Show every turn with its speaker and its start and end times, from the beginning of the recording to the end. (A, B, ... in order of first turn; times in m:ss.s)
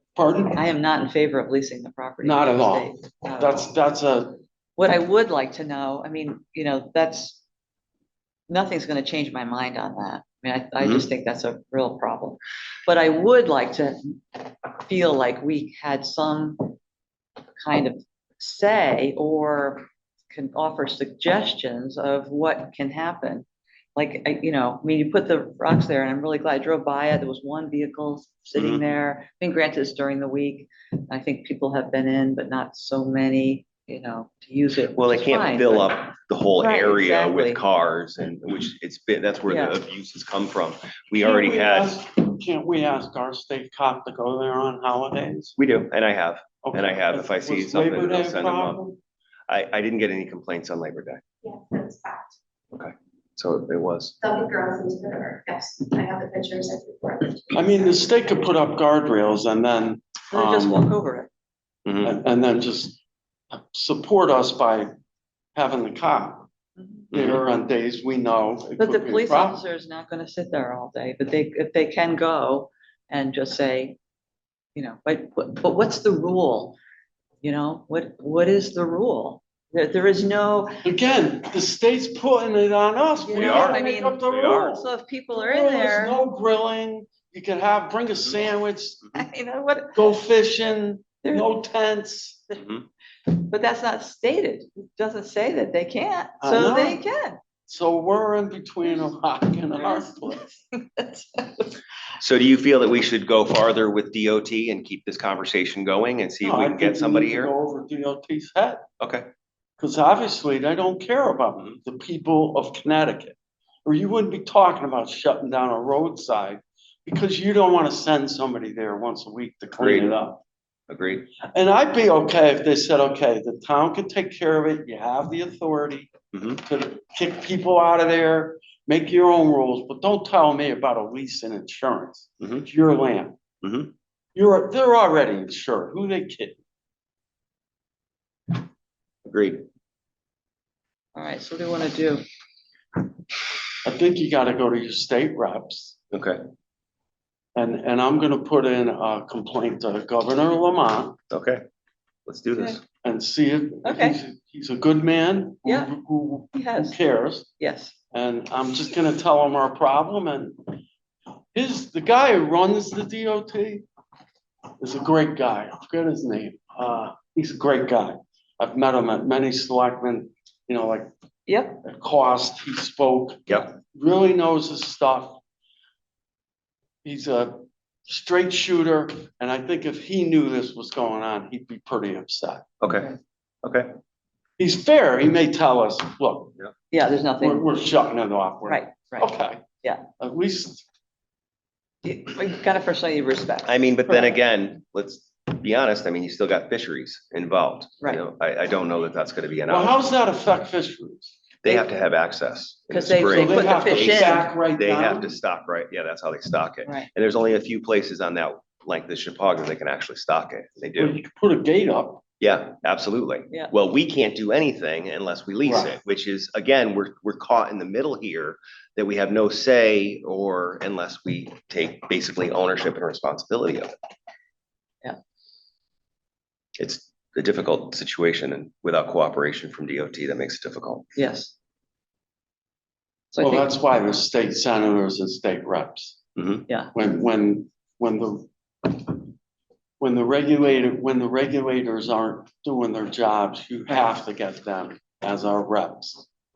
0:00.2-0:00.6 A
0:00.5-0:03.7 B
0:02.2-0:04.4 A
0:04.8-0:07.4 B
0:08.5-0:16.8 B
0:10.8-0:11.1 C
0:17.6-0:36.0 B
0:28.5-0:28.8 C
0:34.9-0:41.9 C
0:36.6-0:37.6 B
0:39.5-0:39.8 B
0:41.2-0:45.6 A
0:45.6-0:48.8 C
0:46.6-0:49.0 A
0:49.5-0:51.2 C
0:51.4-0:52.4 D
0:52.7-0:54.1 C
0:54.2-0:57.6 D
0:57.5-1:00.9 A
1:00.3-1:01.3 B
1:01.8-1:02.1 C
1:02.0-1:03.0 A
1:03.5-1:04.9 A
1:05.5-1:06.5 A
1:06.8-1:07.1 B
1:07.1-1:07.4 C
1:07.1-1:09.6 A
1:08.8-1:14.0 B
1:14.7-1:16.8 B
1:17.4-1:20.7 B
1:20.8-1:29.1 A
1:23.2-1:26.2 B
1:23.3-1:24.7 C
1:29.1-1:30.0 B
1:29.9-1:32.5 A
1:31.2-1:31.5 B
1:32.6-1:32.8 C
1:33.3-1:37.4 B
1:36.4-1:37.0 A
1:37.7-1:40.5 A
1:39.7-1:41.8 B
1:42.2-1:47.5 C
1:46.4-1:48.8 A
1:49.0-1:49.3 C
1:49.8-2:00.4 A
1:59.8-2:00.2 C
2:00.9-2:01.3 C
2:01.4-2:06.1 A
2:06.3-2:06.6 C
2:06.6-2:13.4 A
2:12.4-2:12.7 C
2:13.6-2:13.9 C
2:14.3-2:16.6 A
2:19.2-2:19.6 C
2:21.1-2:22.2 B
2:23.8-2:26.0 A
2:26.1-2:26.4 C
2:27.6-2:31.2 A
2:31.3-2:31.6 C
2:32.2-2:32.8 C
2:33.0-2:37.5 A
2:33.8-2:34.2 B
2:35.6-2:35.9 B
2:36.5-2:37.0 B
2:37.6-2:37.9 B
2:38.1-2:40.7 A
2:41.5-2:43.8 A
2:44.8-2:51.1 A
2:51.4-2:51.8 B
2:51.8-2:55.4 A
2:57.0-3:02.6 A
3:02.8-3:03.9 C
3:04.6-3:06.5 A
3:06.9-3:07.7 B
3:07.4-3:09.6 A
3:08.6-3:09.3 B
3:10.2-3:10.8 A
3:12.0-3:14.3 B
3:13.6-3:20.0 C
3:19.7-3:21.3 A
3:21.6-3:31.2 C
3:22.9-3:24.5 B
3:23.3-3:25.4 A
3:31.0-3:32.2 A
3:32.4-3:43.9 C
3:35.6-3:35.9 A
3:46.8-3:51.1 C
3:51.1-3:51.5 B
3:53.3-3:53.7 B
3:53.4-3:56.2 A
3:56.4-3:56.6 C
3:56.7-3:56.9 B
3:56.9-3:59.3 A
4:00.0-4:06.3 A